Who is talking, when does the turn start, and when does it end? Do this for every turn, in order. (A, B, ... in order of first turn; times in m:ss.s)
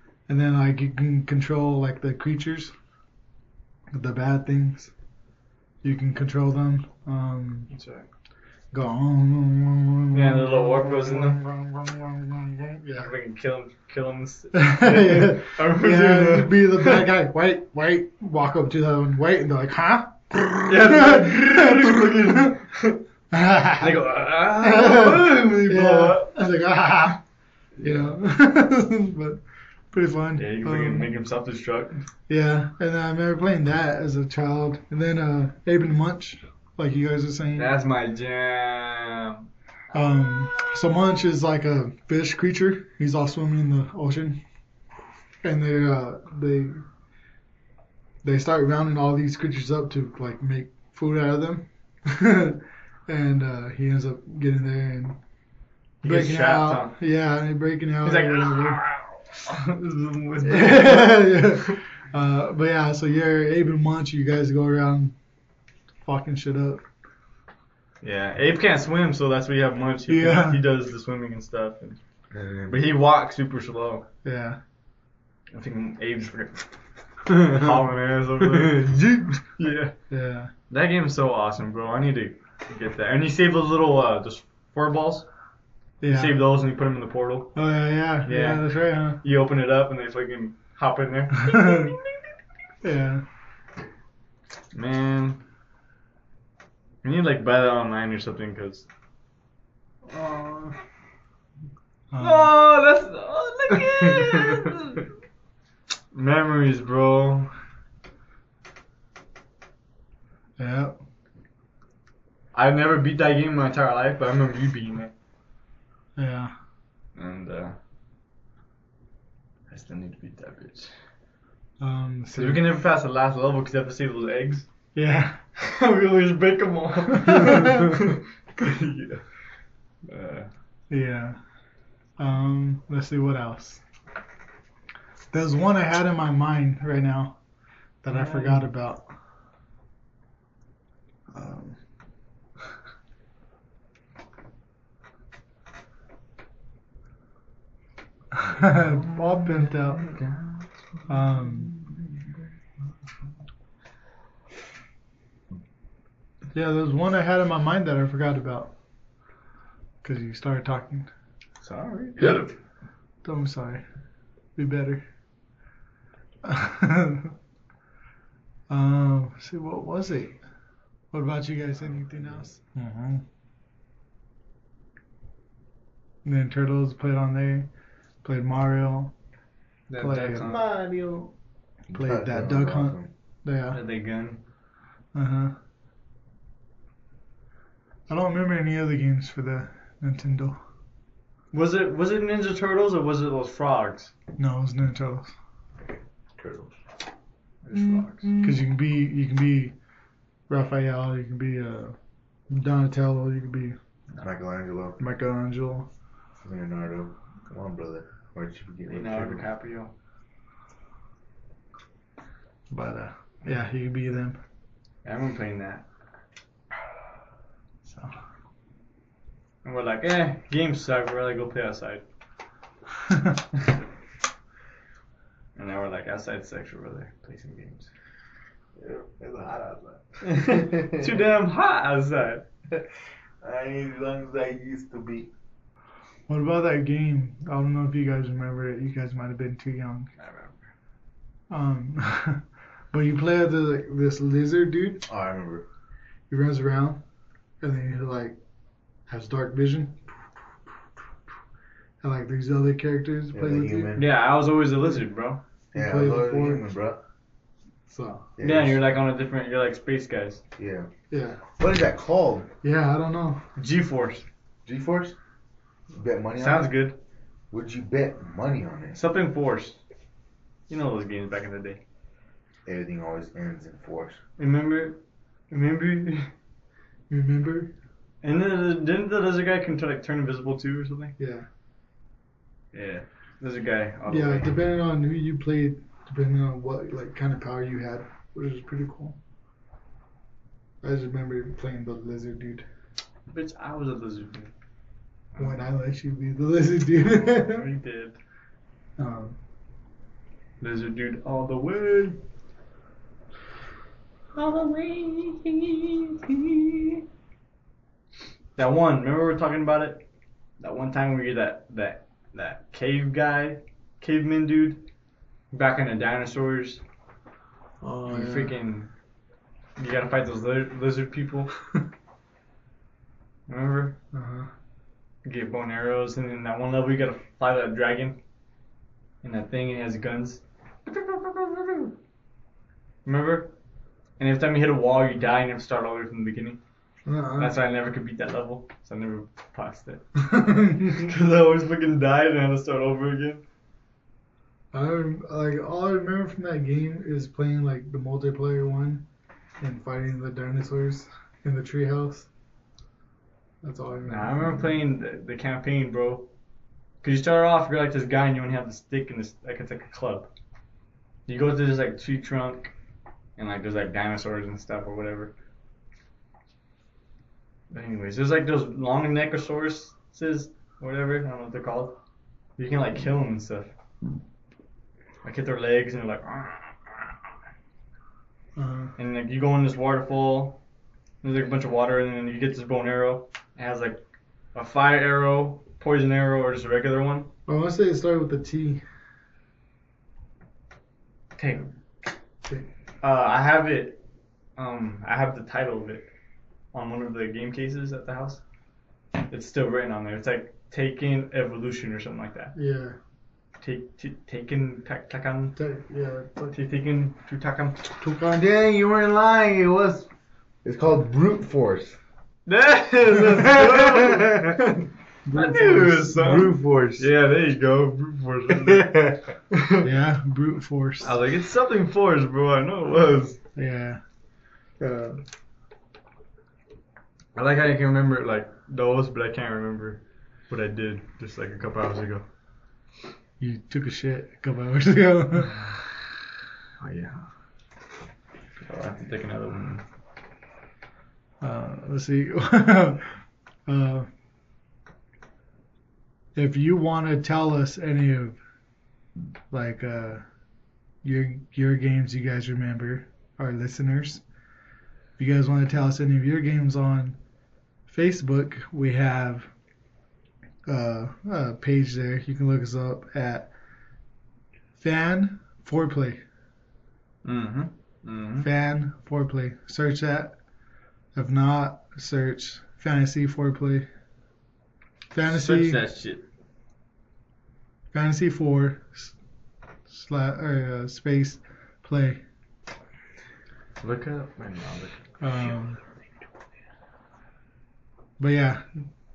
0:00.3-0:02.7 A
0:03.9-0:04.9 A
0:05.8-0:07.7 A
0:07.7-0:08.0 B
0:08.7-0:13.1 A
0:10.1-0:11.4 B
0:13.0-0:17.1 B
0:14.5-0:22.5 A
0:20.6-0:23.0 B
0:23.3-0:27.2 A
0:23.8-0:26.3 B
0:27.8-0:31.1 A
0:27.8-0:28.1 B
0:30.4-0:32.0 B
0:32.3-0:37.7 A
0:37.6-0:39.5 B
0:39.9-0:44.4 A
0:45.4-0:46.8 A
0:48.2-0:55.2 A
0:56.0-0:57.0 B
0:56.0-0:58.8 A
0:58.0-1:01.8 B
1:00.4-1:05.1 A
1:06.0-1:06.8 A
1:08.0-1:12.0 B
1:10.1-1:10.6 A
1:12.3-1:12.8 C
1:12.7-1:14.0 B
1:14.2-1:14.6 A
1:15.5-1:19.9 B
1:18.6-1:19.1 C
1:20.1-1:20.5 A
1:20.7-1:25.3 B
1:26.0-1:26.4 A
1:26.1-1:27.5 B
1:27.5-1:29.2 A
1:28.2-1:28.6 B
1:29.2-1:32.3 B
1:31.4-1:31.9 A
1:32.8-1:33.2 A
1:34.7-1:35.4 B
1:37.0-1:38.9 B
1:40.1-1:40.7 B
1:42.1-1:42.6 A
1:42.2-1:45.0 B
1:46.1-1:47.5 B
1:50.6-1:51.0 A
1:52.5-1:55.1 B
1:56.2-1:56.5 A
1:57.1-1:57.8 B
1:59.7-2:00.9 B
2:01.8-2:02.7 A
2:02.3-2:04.7 B
2:04.9-2:05.4 A
2:05.6-2:09.3 B
2:07.2-2:07.9 A
2:10.0-2:10.5 B
2:10.9-2:11.4 A
2:12.2-2:13.8 A
2:15.3-2:17.4 A
2:18.0-2:19.0 A
2:18.1-2:18.6 B
2:21.3-2:21.8 A
2:28.3-2:30.1 A
2:31.1-2:31.7 A
2:36.5-2:38.7 A
2:40.0-2:41.1 A
2:41.6-2:42.5 B
2:43.2-2:43.8 A
2:44.6-2:45.0 A
2:46.4-2:47.3 A
2:48.7-2:50.4 A
2:51.1-2:53.2 A
2:56.2-2:57.7 A
2:58.2-2:59.1 A
2:59.9-3:00.6 B
3:00.0-3:00.5 A
3:00.4-3:01.3 C
3:01.9-3:03.1 C
3:01.9-3:03.8 A
3:03.7-3:04.4 B
3:05.1-3:05.5 A
3:08.1-3:10.6 A
3:11.5-3:14.1 B
3:14.4-3:15.3 A
3:16.4-3:16.7 C
3:17.6-3:18.3 B
3:18.3-3:19.7 A
3:20.5-3:22.0 A
3:22.5-3:23.8 A
3:24.2-3:25.0 C
3:25.0-3:25.9 A
3:26.4-3:29.5 C
3:28.9-3:29.9 B
3:32.7-3:34.4 A
3:35.0-3:35.8 B
3:37.8-3:38.1 A
3:39.6-3:42.0 B
3:43.1-3:43.4 A
3:45.6-3:47.9 B
3:48.8-3:51.2 C
3:50.2-3:52.4 B
3:53.4-3:55.3 C
3:56.3-4:00.1 A
4:00.2-4:00.7 B
4:01.5-4:05.0 A
4:05.1-4:05.6 C
4:06.3-4:07.0 A
4:07.6-4:08.4 A
4:09.1-4:10.1 A
4:12.0-4:14.0 A
4:13.3-4:14.1 C
4:13.9-4:15.4 B
4:15.7-4:16.6 A
4:15.7-4:17.0 C
4:17.9-4:18.3 A
4:18.4-4:18.9 C
4:18.4-4:20.4 B
4:20.6-4:20.9 C
4:21.1-4:21.4 A
4:21.6-4:22.5 C
4:22.6-4:23.4 A
4:23.6-4:24.2 B
4:24.6-4:25.2 C
4:25.9-4:26.8 C
4:26.4-4:27.0 B
4:27.5-4:29.0 C
4:28.9-4:29.8 B
4:30.7-4:31.8 B
4:32.6-4:34.2 C
4:34.4-4:35.0 B
4:35.5-4:36.3 B
4:37.1-4:37.7 A
4:38.2-4:41.1 B
4:41.2-4:41.5 A
4:42.7-4:44.5 B
4:44.1-4:49.2 A
4:50.8-4:52.6 A
4:53.3-4:54.5 B
4:55.4-4:57.7 A
4:57.1-4:58.2 B
4:59.0-4:59.4 A
5:00.6-5:02.2 B
5:04.3-5:07.0 B
5:08.6-5:10.0 B
5:10.6-5:14.8 B
5:15.5-5:16.8 B
5:17.8-5:18.5 A
5:18.0-5:18.9 B
5:19.8-5:21.5 B
5:23.5-5:24.0 B
5:24.1-5:24.5 A
5:25.2-5:28.2 B
5:29.2-5:31.9 B
5:33.0-5:33.5 B
5:34.2-5:36.6 B
5:37.0-5:37.6 A
5:37.4-5:40.0 B
5:40.2-5:41.1 A
5:40.8-5:43.4 B
5:44.7-5:49.0 A
5:49.6-5:52.3 A
5:53.6-5:54.8 A
5:54.0-5:56.3 B
5:57.0-6:00.3 B
6:01.3-6:02.7 B
6:03.4-6:05.3 B
6:07.7-6:12.0 B
6:12.6-6:13.7 B
6:15.2-6:17.1 B
6:18.6-6:18.9 A
6:19.0-6:20.6 B
6:21.2-6:24.0 B
6:24.5-6:27.3 B
6:27.5-6:28.8 A
6:31.4-6:31.7 B
6:33.0-6:34.0 B
6:34.6-6:36.1 B
6:36.7-6:38.4 B
6:39.3-6:42.6 B
6:42.5-6:43.0 A
6:43.6-6:45.6 B
6:45.6-6:46.5 A
6:46.5-6:47.8 B
6:48.0-6:48.4 A
6:48.2-6:50.1 C
6:50.6-6:52.0 C
6:52.4-6:58.9 B
6:53.4-6:54.5 C
6:55.2-6:56.5 A
6:56.1-6:57.1 C
6:58.6-6:59.2 C
6:59.5-6:59.8 B
6:59.8-7:01.1 A
7:01.0-7:03.4 B
7:03.5-7:04.0 A
7:04.8-7:05.2 C
7:07.3-7:12.2 B
7:13.4-7:15.6 A
7:15.4-7:15.8 B
7:16.8-7:17.2 B
7:18.6-7:19.8 B
7:21.4-7:23.1 A
7:23.7-7:24.1 A
7:26.3-7:28.4 A
7:29.5-7:30.2 A
7:31.0-7:34.2 A
7:35.2-7:37.2 A
7:37.9-7:39.5 A
7:40.6-7:43.5 A
7:44.8-7:46.2 A
7:47.2-7:48.5 B
7:48.4-7:50.4 A
7:51.1-7:53.9 A
7:55.1-7:55.8 A
7:55.2-7:56.2 B
7:57.9-7:59.1 A
7:59.9-8:02.2 A
8:03.8-8:05.0 B
8:05.2-8:05.8 A
8:08.2-8:08.8 A